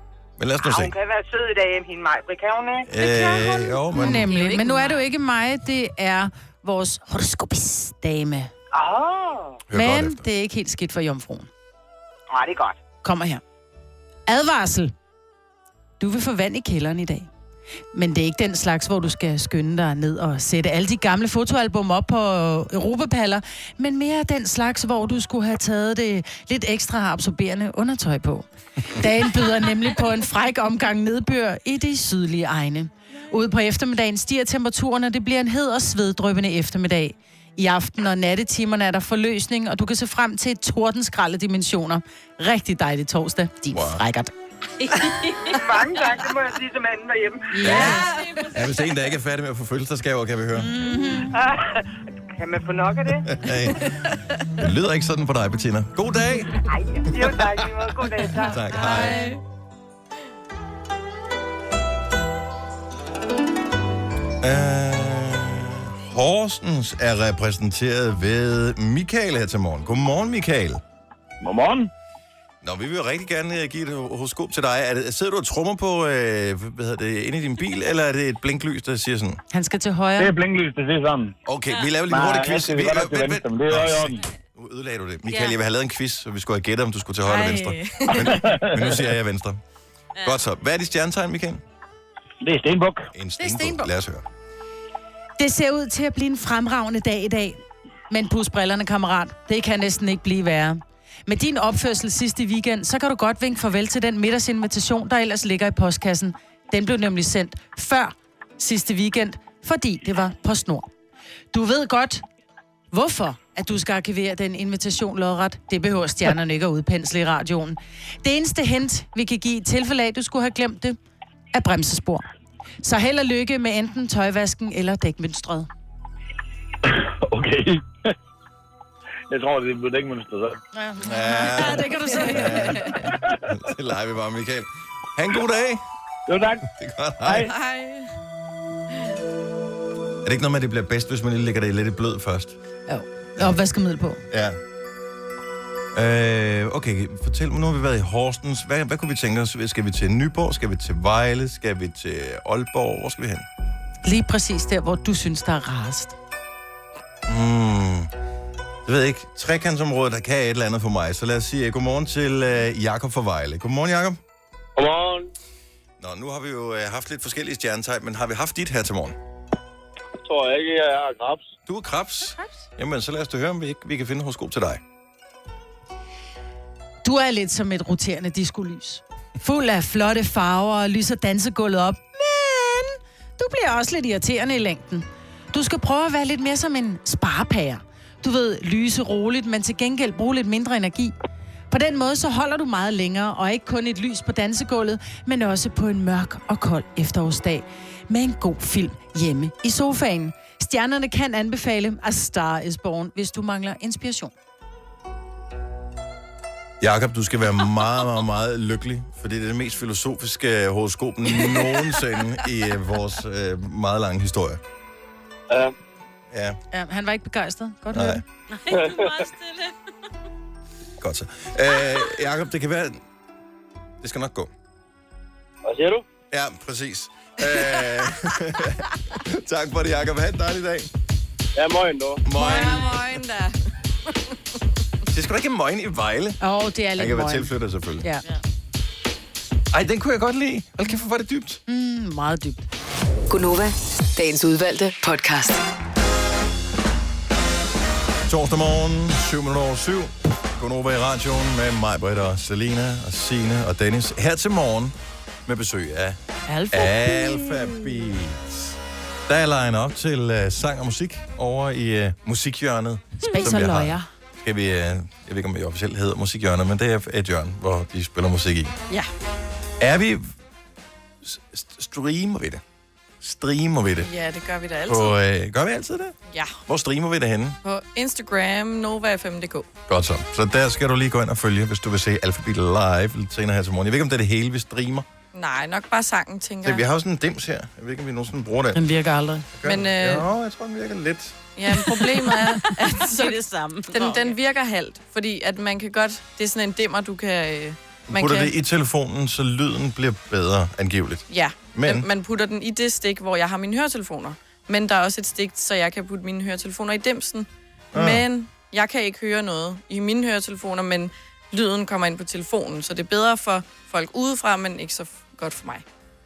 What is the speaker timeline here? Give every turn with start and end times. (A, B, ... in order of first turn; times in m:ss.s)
0:00.4-0:00.9 A
0:00.6-0:02.9 B
0:02.9-0:04.3 A
0:03.0-0:08.5 C
0:04.0-0:05.1 D
0:08.7-0:09.6 B
0:09.7-0:10.2 A
0:09.7-0:11.5 C
0:12.3-0:12.8 B
0:13.0-0:13.4 C
0:14.3-0:14.9 C
0:16.0-0:17.3 C
0:17.9-0:44.3 C
0:43.7-0:44.0 A
0:44.8-0:45.6 D
0:45.5-0:47.8 B
0:47.5-0:48.1 C
0:47.6-0:50.7 A
0:47.9-0:48.7 D
0:50.6-0:51.3 C
0:51.3-0:53.3 B
0:53.3-0:53.9 A
0:54.6-0:56.6 A
0:56.7-0:58.6 B
0:58.4-0:59.3 A
0:58.8-0:59.4 E
1:04.4-1:10.8 A
1:11.4-1:11.9 F
1:12.6-1:19.4 A
1:19.5-1:20.3 C
1:20.2-1:21.3 F
1:21.5-1:29.6 A
1:22.1-1:24.2 F
1:25.3-1:25.6 D
1:27.3-1:28.4 E
1:28.4-1:28.9 F
1:30.2-1:31.6 A
1:32.4-1:33.1 F
1:33.1-1:34.2 A
1:33.4-1:33.9 C
1:35.4-1:37.6 C
1:38.1-1:50.9 C
1:51.5-1:52.2 C
1:52.9-2:01.0 C
2:01.5-2:02.3 C
2:02.8-2:05.7 C
2:06.8-2:08.1 F
2:09.3-2:10.6 F
2:10.7-2:13.1 C
2:11.0-2:15.8 A
2:12.6-2:12.9 E
2:16.3-2:16.6 F
2:16.6-2:17.5 A
2:17.2-2:17.5 F
2:17.4-2:18.1 E
2:20.2-2:22.6 A
2:22.9-2:24.2 C
2:24.3-2:24.6 A
2:25.9-2:33.5 A
2:34.0-2:36.2 C
2:37.3-2:38.1 A
2:38.8-2:44.2 A
2:44.8-2:45.3 F
2:46.0-2:49.2 A
2:50.2-2:51.5 F
2:51.7-2:54.8 A
2:57.0-3:11.1 C
3:11.7-3:24.3 C
3:26.8-3:34.6 A
3:36.3-3:36.6 A
3:36.7-3:38.2 C
3:37.9-3:38.2 A
3:38.5-3:39.7 D
3:38.7-3:39.1 F
3:41.0-3:43.0 A
3:44.0-3:44.5 A
3:45.6-3:46.0 F
3:46.3-3:50.9 A
3:51.6-3:52.2 F
3:52.2-3:53.0 A
3:52.3-3:53.6 E
3:55.1-3:56.4 A
3:56.4-3:58.2 C
3:57.0-3:58.1 A
3:59.7-4:01.6 A
4:01.7-4:02.6 C
4:03.3-4:05.6 G
4:08.3-4:16.2 A
4:16.5-4:17.8 C
4:16.7-4:18.8 A
4:19.3-4:28.7 A
4:23.2-4:24.1 C
4:29.8-4:30.3 A
4:31.2-4:32.6 A
4:33.2-4:34.1 A
4:34.0-4:35.2 E
4:34.9-4:36.2 A
4:36.3-4:36.6 E
4:36.7-4:37.6 A
4:37.6-4:39.7 E
4:39.9-4:45.1 A
4:45.3-4:46.8 E
4:46.6-4:48.8 A
4:48.7-4:49.5 C
4:49.6-4:51.4 A
4:49.6-4:50.3 E
4:51.6-4:53.4 E
4:51.8-4:52.7 C
4:53.0-4:54.4 D
4:53.9-4:58.5 E
4:58.1-5:02.1 A
5:01.3-5:15.8 E
5:07.9-5:08.3 A